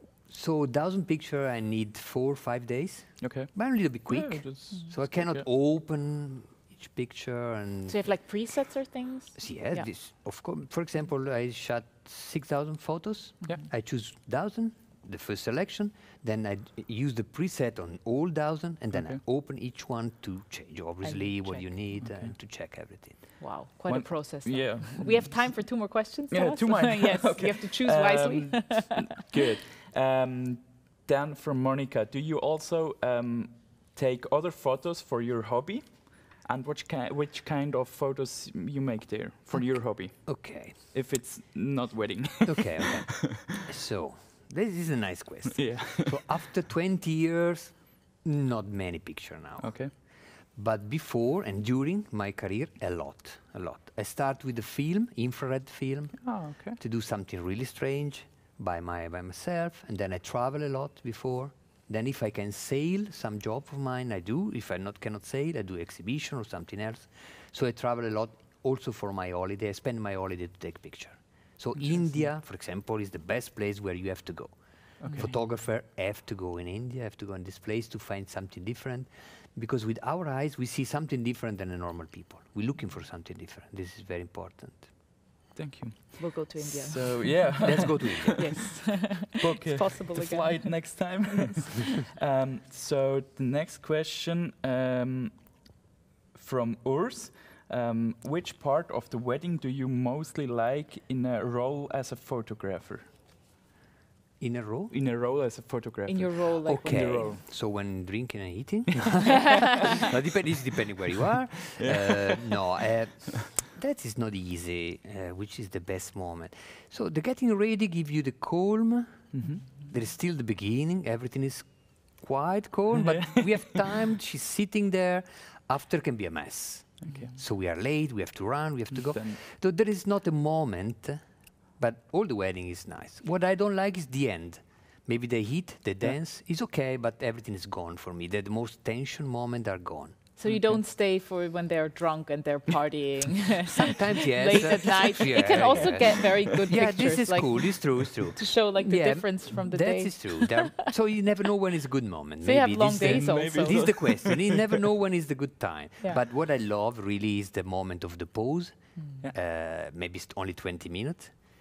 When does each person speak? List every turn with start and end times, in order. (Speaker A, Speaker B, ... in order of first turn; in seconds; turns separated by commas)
Speaker A: 0.3-8.0, Speaker B: 3.2-5.4, Speaker C: 7.9-9.8, Speaker A: 9.3-23.4, Speaker B: 18.9-19.2, Speaker C: 21.0-21.7, Speaker B: 22.0-22.3, Speaker C: 23.4-28.9, Speaker B: 23.9-25.5, Speaker B: 26.3-43.5, Speaker A: 39.5-40.7, Speaker A: 42.4-84.9, Speaker B: 45.5-46.4, Speaker B: 49.6-49.9, Speaker B: 56.2-56.8, Speaker B: 72.0-72.2, Speaker B: 75.0-75.3, Speaker C: 75.0-75.3, Speaker B: 85.5-95.6, Speaker C: 86.2-91.5, Speaker A: 87.6-88.8, Speaker B: 96.3-103.1, Speaker A: 104.4-104.9, Speaker B: 104.9-107.4, Speaker C: 106.0-107.0, Speaker A: 106.6-131.2, Speaker B: 111.8-112.6, Speaker B: 119.3-119.8, Speaker B: 122.9-123.6, Speaker B: 127.0-127.4, Speaker B: 128.9-129.4, Speaker A: 131.8-140.2, Speaker C: 140.4-150.8, Speaker B: 140.5-140.8, Speaker A: 143.7-161.4, Speaker B: 144.6-146.9, Speaker C: 152.4-153.8, Speaker B: 152.8-154.8, Speaker C: 158.9-159.2